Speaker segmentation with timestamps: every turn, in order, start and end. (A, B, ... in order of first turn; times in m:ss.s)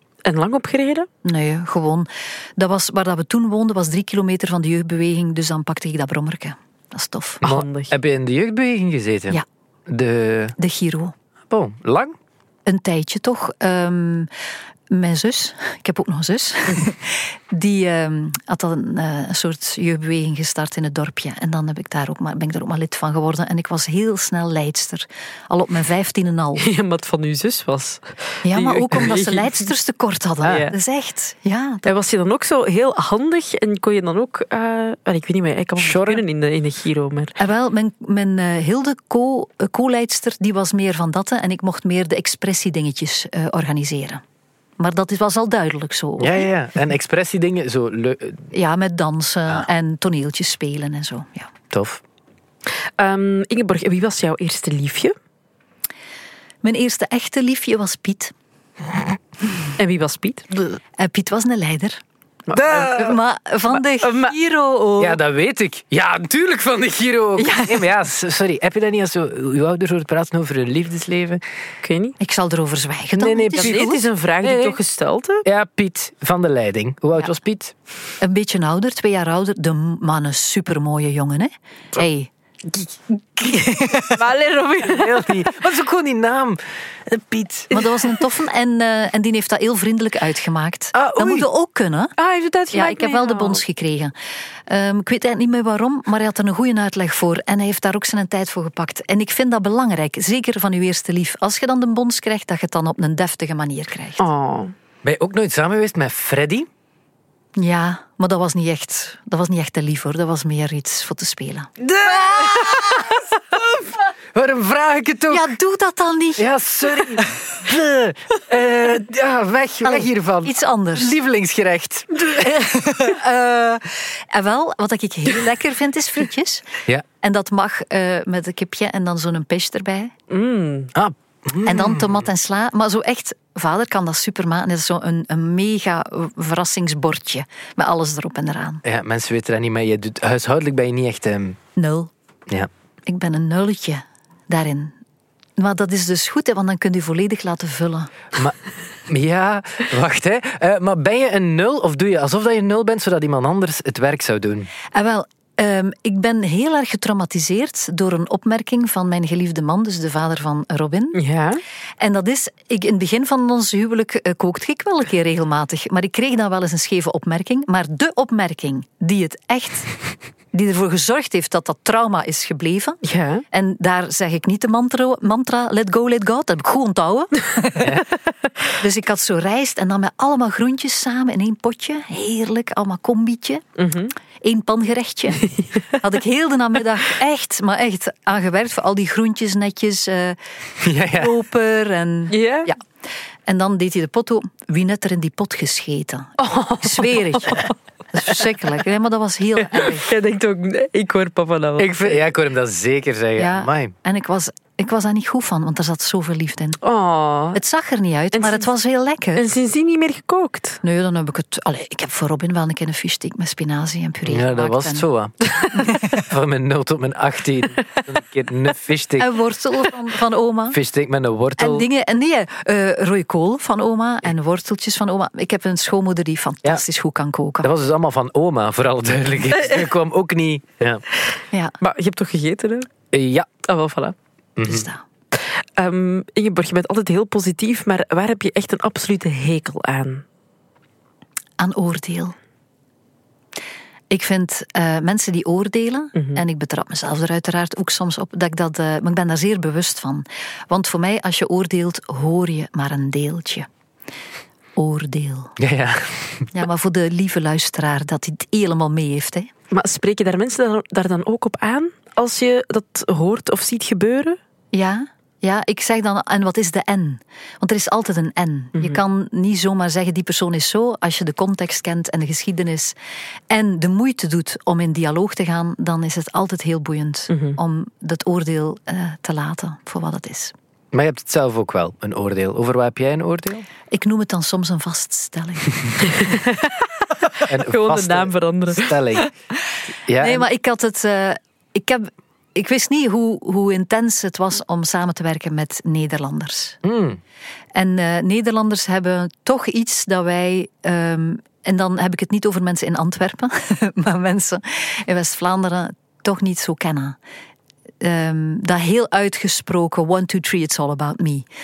0:00.2-0:01.1 A
0:01.2-0:07.4 B
0:07.4-0:07.9 A
0:07.4-0:10.6 C
0:10.6-0:11.1 B
0:11.5-0:12.2 C
0:12.6-0:14.3 B
0:14.9-0:26.6 B
0:26.6-0:29.7 A
0:28.4-0:31.9 B
0:30.4-0:30.7 A
0:31.8-0:37.4 A
0:35.8-0:36.2 C
0:37.4-0:44.2 B
0:44.8-0:46.5 B
0:46.2-0:48.5 C
0:48.5-0:51.5 B
0:51.7-0:52.0 C
0:53.0-0:55.1 A
0:56.6-0:58.3 B
0:59.8-1:00.5 A
1:00.7-1:02.0 B
1:02.5-1:03.0 A
1:02.5-1:03.2 C
1:02.7-1:05.2 B
1:03.9-1:04.3 A
1:05.0-1:11.4 C
1:07.4-1:07.8 B
1:11.8-1:12.2 A
1:12.2-1:14.0 B
1:13.2-1:13.9 C
1:13.5-1:15.4 A
1:14.4-1:14.8 C
1:15.4-1:17.7 C
1:18.2-1:22.3 B
1:23.4-1:24.2 B
1:24.1-1:25.4 A
1:24.8-1:27.7 C
1:27.7-1:32.1 B
1:30.9-1:31.5 C
1:32.2-1:33.6 A
1:32.7-1:34.1 B
1:34.7-1:44.2 B
1:44.2-1:44.7 A
1:45.0-1:46.7 C
1:47.6-1:53.1 B
1:51.8-1:53.2 C
1:54.3-1:55.5 C
1:55.3-1:56.5 B
1:56.4-2:02.6 C
1:59.8-2:01.2 B
2:02.4-2:06.7 B
2:07.2-2:10.1 B
2:10.3-2:10.9 A
2:10.9-2:12.2 C
2:11.6-2:18.8 B
2:18.8-2:21.6 C
2:21.8-2:22.1 B
2:23.1-2:24.9 B
2:25.6-2:28.1 B
2:29.1-2:34.7 C
2:34.9-2:41.2 B
2:41.1-2:41.6 A
2:42.0-2:49.9 B
2:50.5-2:57.9 B
2:53.0-2:53.4 A
2:57.8-2:58.0 C
2:58.7-3:03.6 B
3:03.8-3:04.1 A
3:04.4-3:10.4 B
3:10.8-3:11.3 C
3:11.0-3:12.8 B
3:12.3-3:12.7 A
3:13.4-3:20.1 B
3:16.4-3:17.7 A
3:19.7-3:22.1 A
3:21.8-3:23.9 C
3:23.4-3:26.8 B
3:26.8-3:27.6 A
3:27.5-3:29.4 B
3:28.3-3:28.6 A
3:29.4-3:30.8 A
3:30.8-3:35.0 B
3:34.2-3:35.4 C
3:36.0-3:39.3 C
3:39.2-3:40.8 B
3:40.7-3:41.9 C
3:41.6-3:47.7 B
3:47.6-3:51.0 C
3:51.8-3:52.9 A
3:53.1-3:53.5 C
3:53.6-3:54.1 A
3:54.6-3:54.8 C
3:54.6-3:55.0 B
3:55.3-4:00.2 A
4:01.6-4:02.3 B
4:04.1-4:13.7 B
4:14.8-4:15.5 B
4:15.6-4:16.5 C
4:16.5-4:19.5 B
4:19.7-4:24.4 A
4:24.7-4:33.0 B
4:33.5-4:40.5 B
4:37.3-4:37.6 A
4:40.9-4:43.7 C
4:43.9-4:45.7 B
4:46.1-4:49.0 A
4:47.5-4:49.3 C
4:50.1-4:50.4 C
4:50.2-4:56.8 B
4:56.8-4:57.2 C
4:57.7-5:07.2 B
5:08.0-5:11.4 B